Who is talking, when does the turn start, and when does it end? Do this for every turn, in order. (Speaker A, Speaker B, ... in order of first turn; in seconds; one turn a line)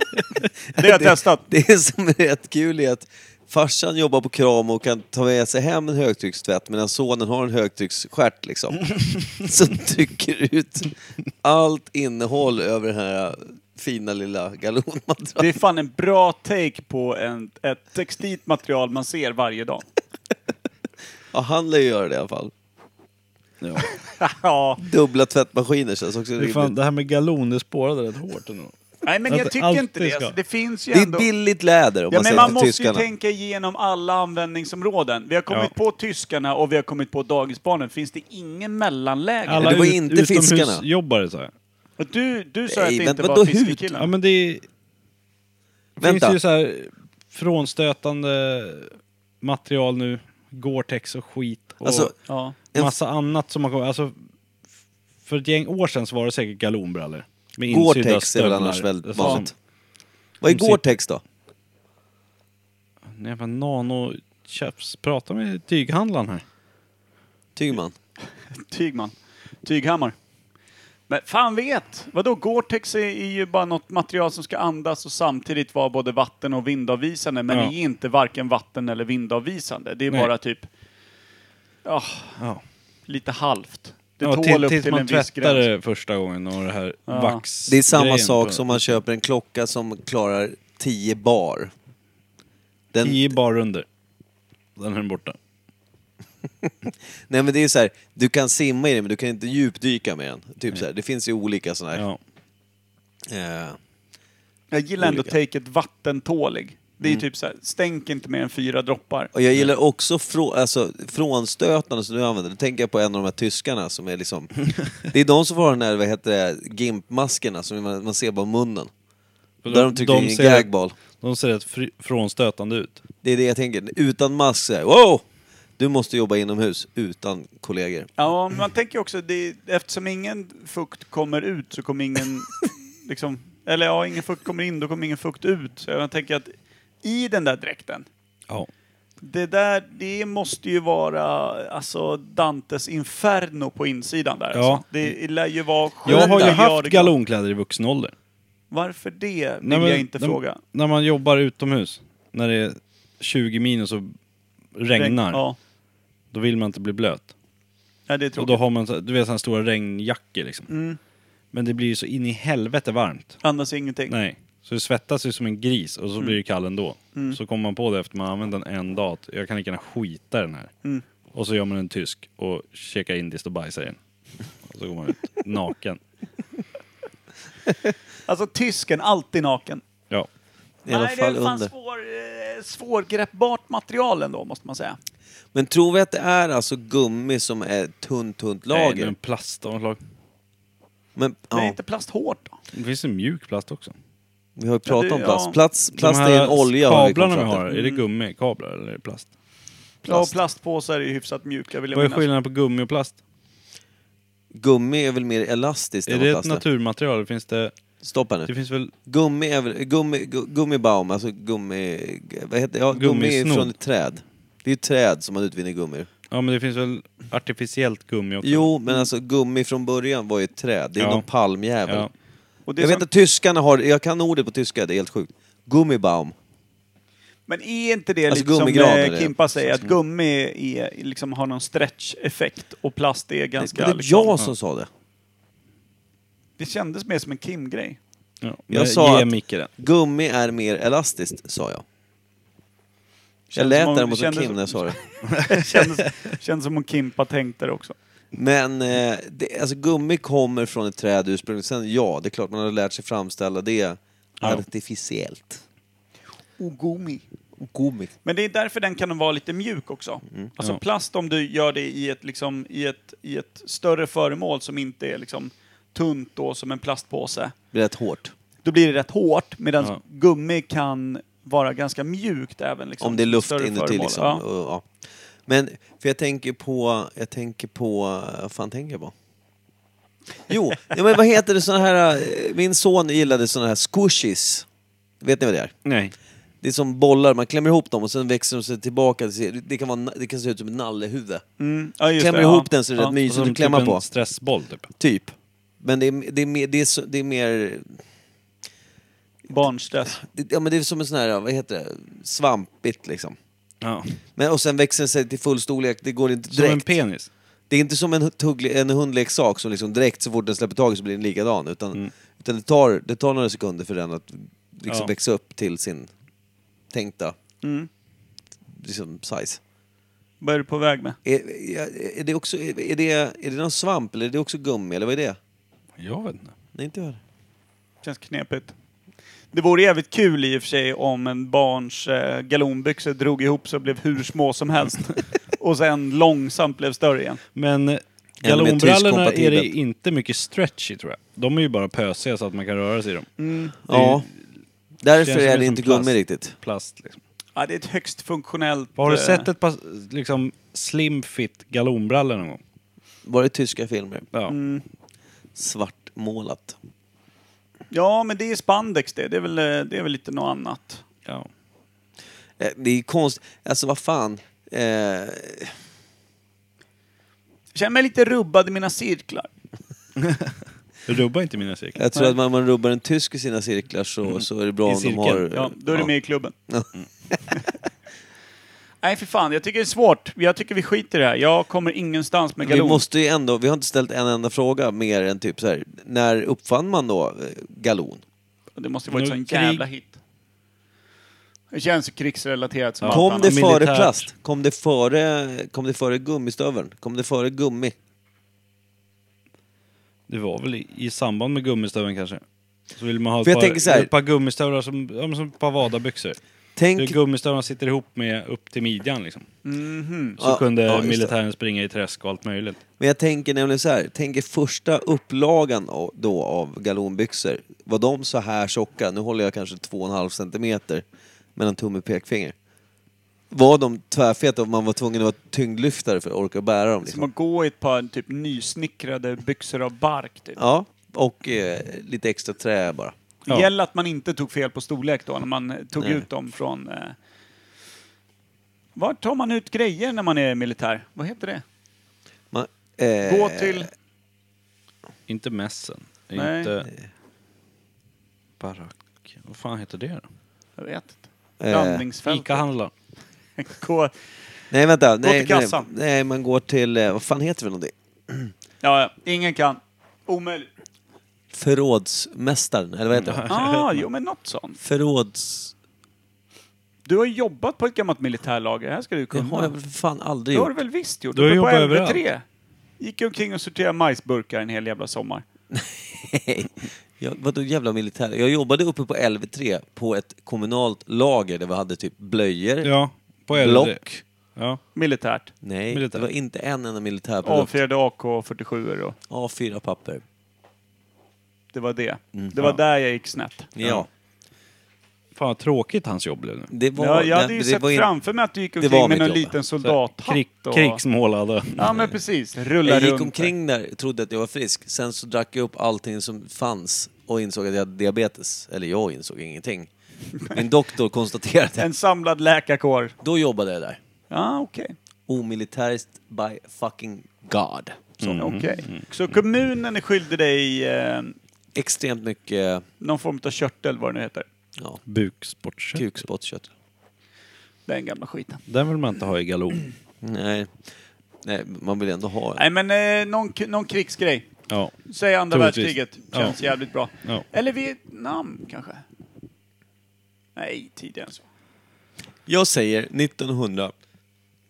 Speaker A: 0.7-1.4
Speaker B: 0.7-15.5
Speaker A: 15.4-19.8
Speaker B: 21.3-22.5
Speaker C: 23.6-23.9
Speaker A: 23.8-24.8
Speaker B: 24.8-26.7
Speaker C: 26.4-28.8
Speaker A: 29.0-31.3
Speaker C: 29.3-30.4
Speaker B: 30.9-33.1
Speaker A: 32.1-39.8
Speaker C: 39.5-41.5
Speaker B: 39.6-40.8
Speaker A: 42.0-44.1
Speaker B: 42.7-43.8
Speaker C: 44.0-44.6
Speaker B: 46.0-46.4
Speaker C: 46.0-52.1
Speaker B: 51.8-52.1
Speaker A: 52.3-52.6
Speaker C: 52.8-54.1
Speaker C: 55.2-59.5
Speaker B: 57.7-59.5
Speaker A: 59.2-59.4
Speaker B: 60.4-61.2
Speaker C: 60.5-60.8
Speaker C: 63.1-66.4
Speaker B: 67.6-68.0
Speaker A: 68.5-70.2
Speaker A: 71.1-80.7
Speaker C: 77.5-77.7
Speaker A: 81.8-82.4
Speaker C: 82.4-82.6
Speaker A: 83.1-85.7
Speaker C: 84.2-89.0
Speaker A: 87.1-87.4
Speaker B: 87.7-91.7
Speaker B: 92.9-93.3
Speaker C: 93.0-93.9
Speaker C: 94.8-95.4
Speaker B: 96.6-102.0
Speaker C: 101.9-102.2
Speaker B: 103.3-103.8
Speaker A: 104.7-109.3
Speaker B: 105.0-105.3
Speaker B: 109.3-118.9
Speaker C: 119.6-123.0
Speaker B: 119.7-121.0
Speaker B: 123.2-125.2
Speaker B: 125.8-128.1
Speaker A: 128.2-136.5
Speaker A: 137.0-138.1
Speaker A: 139.2-147.1
Speaker C: 144.5-144.8
Speaker B: 146.1-146.6
Speaker C: 146.1-148.1
Speaker A: 148.7-150.6
Speaker C: 149.6-154.1
Speaker C: 154.8-155.4
Speaker A: 154.9-155.6
Speaker C: 156.3-157.3
Speaker A: 158.1-158.6
Speaker C: 158.4-160.7
Speaker A: 160.7-161.0
Speaker C: 161.5-163.4
Speaker A: 163.4-164.1
Speaker C: 164.1-170.7
Speaker C: 171.3-174.0
Speaker C: 174.6-176.0
Speaker A: 178.3-179.8
Speaker B: 180.9-181.7
Speaker A: 180.9-185.0
Speaker B: 185.5-189.1
Speaker C: 188.7-190.0
Speaker B: 191.2-191.8
Speaker A: 191.5-192.6
Speaker C: 192.7-193.9
Speaker B: 194.6-197.6
Speaker A: 194.9-195.6
Speaker C: 195.9-199.3
Speaker A: 197.7-198.0
Speaker A: 200.0-202.2
Speaker C: 201.9-203.2
Speaker B: 204.6-206.6
Speaker C: 206.1-207.8
Speaker B: 208.0-208.5
Speaker C: 208.5-208.9
Speaker B: 209.1-216.1
Speaker C: 212.9-213.7
Speaker C: 216.3-218.7
Speaker B: 218.4-222.1
Speaker C: 221.0-221.3
Speaker C: 221.9-222.1
Speaker A: 222.7-223.1
Speaker B: 222.8-226.3
Speaker A: 227.5-234.3
Speaker B: 228.3-229.7
Speaker B: 233.6-234.9
Speaker A: 236.6-238.0
Speaker C: 238.4-239.7
Speaker B: 238.7-241.8
Speaker A: 243.5-248.0
Speaker B: 243.6-245.0
Speaker C: 245.3-245.9
Speaker B: 248.3-255.6
Speaker A: 256.6-257.2
Speaker B: 257.6-258.1
Speaker A: 258.2-267.5
Speaker B: 267.7-268.3
Speaker A: 268.6-274.4
Speaker B: 273.0-274.9
Speaker B: 275.5-279.1
Speaker B: 280.5-284.7
Speaker B: 285.2-285.8
Speaker C: 285.9-286.1
Speaker B: 286.6-291.4
Speaker A: 291.6-293.1
Speaker B: 292.2-294.1
Speaker C: 293.2-294.9
Speaker B: 295.0-298.0
Speaker A: 299.5-300.2
Speaker B: 300.1-303.4
Speaker C: 303.8-304.1
Speaker B: 304.4-306.9
Speaker C: 306.5-307.3
Speaker B: 307.7-316.1
Speaker B: 316.9-317.4
Speaker A: 317.6-317.9
Speaker B: 318.8-319.6
Speaker A: 320.4-321.2
Speaker B: 321.2-325.4
Speaker C: 326.0-326.6
Speaker B: 326.8-327.2
Speaker A: 328.0-328.7
Speaker A: 329.5-337.4
Speaker C: 337.6-343.3
Speaker B: 338.4-339.7
Speaker A: 343.4-343.8
Speaker B: 343.9-344.3
Speaker C: 343.9-344.3
Speaker B: 345.0-346.6
Speaker C: 345.2-347.2
Speaker A: 347.6-349.5
Speaker C: 349.0-352.6
Speaker B: 353.2-354.3
Speaker A: 354.5-354.9
Speaker B: 355.6-356.8
Speaker A: 357.9-361.0
Speaker B: 362.6-365.8
Speaker A: 367.7-369.5
Speaker C: 370.2-372.0
Speaker B: 372.0-376.1
Speaker C: 374.3-375.4
Speaker A: 375.5-376.5
Speaker B: 376.7-377.4
Speaker A: 379.0-383.0
Speaker B: 382.6-388.2
Speaker A: 388.8-390.2
Speaker C: 389.1-389.8
Speaker A: 391.7-393.7
Speaker C: 393.0-394.3
Speaker B: 393.1-397.9
Speaker C: 400.3-402.4
Speaker C: 402.9-406.4
Speaker B: 403.4-404.1
Speaker B: 406.8-407.2
Speaker C: 407.0-409.5
Speaker A: 409.6-410.4
Speaker B: 410.4-411.3
Speaker C: 410.4-412.8
Speaker B: 413.0-421.0
Speaker B: 421.6-422.5
Speaker B: 423.5-427.3
Speaker A: 427.1-430.6
Speaker B: 430.6-433.1
Speaker A: 433.5-437.2
Speaker B: 436.0-436.2
Speaker A: 439.0-441.6
Speaker B: 442.5-443.9
Speaker A: 443.2-443.9
Speaker C: 445.3-446.9
Speaker A: 446.4-446.7
Speaker C: 448.6-450.2
Speaker A: 450.8-452.7
Speaker B: 451.6-452.0
Speaker C: 452.3-452.9
Speaker A: 453.6-454.1
Speaker B: 454.7-458.5
Speaker A: 455.2-455.9
Speaker A: 458.8-460.7
Speaker B: 461.5-463.4
Speaker C: 463.1-464.1
Speaker A: 463.5-464.8
Speaker B: 464.8-465.7
Speaker A: 467.1-469.7
Speaker B: 469.3-470.8
Speaker A: 470.5-472.4
Speaker C: 471.3-472.2
Speaker A: 473.0-475.4
Speaker B: 475.7-482.9
Speaker C: 482.8-484.0
Speaker B: 483.5-484.2
Speaker C: 484.6-484.8
Speaker A: 484.9-485.5
Speaker B: 485.6-487.8
Speaker C: 485.9-486.3
Speaker A: 487.4-489.2
Speaker B: 489.3-490.2
Speaker A: 491.7-493.7
Speaker B: 492.3-492.8
Speaker B: 493.8-494.1
Speaker C: 495.4-496.7
Speaker B: 496.7-498.1
Speaker A: 497.0-501.0
Speaker B: 498.8-499.6
Speaker C: 499.8-502.1
Speaker A: 501.8-503.5
Speaker B: 502.8-511.9
Speaker A: 511.8-513.1
Speaker B: 513.2-514.0
Speaker A: 514.3-515.0
Speaker B: 515.3-518.3
Speaker C: 518.2-519.3
Speaker A: 518.2-521.4
Speaker B: 521.8-522.9
Speaker A: 523.0-524.5
Speaker C: 525.1-526.2
Speaker B: 526.0-526.7
Speaker A: 527.9-528.6
Speaker C: 528.7-529.8
Speaker B: 530.2-530.7
Speaker B: 531.4-532.6
Speaker A: 532.6-534.5
Speaker C: 534.7-534.9
Speaker A: 535.0-539.0
Speaker C: 535.5-536.6
Speaker A: 540.6-541.5
Speaker B: 542.5-543.9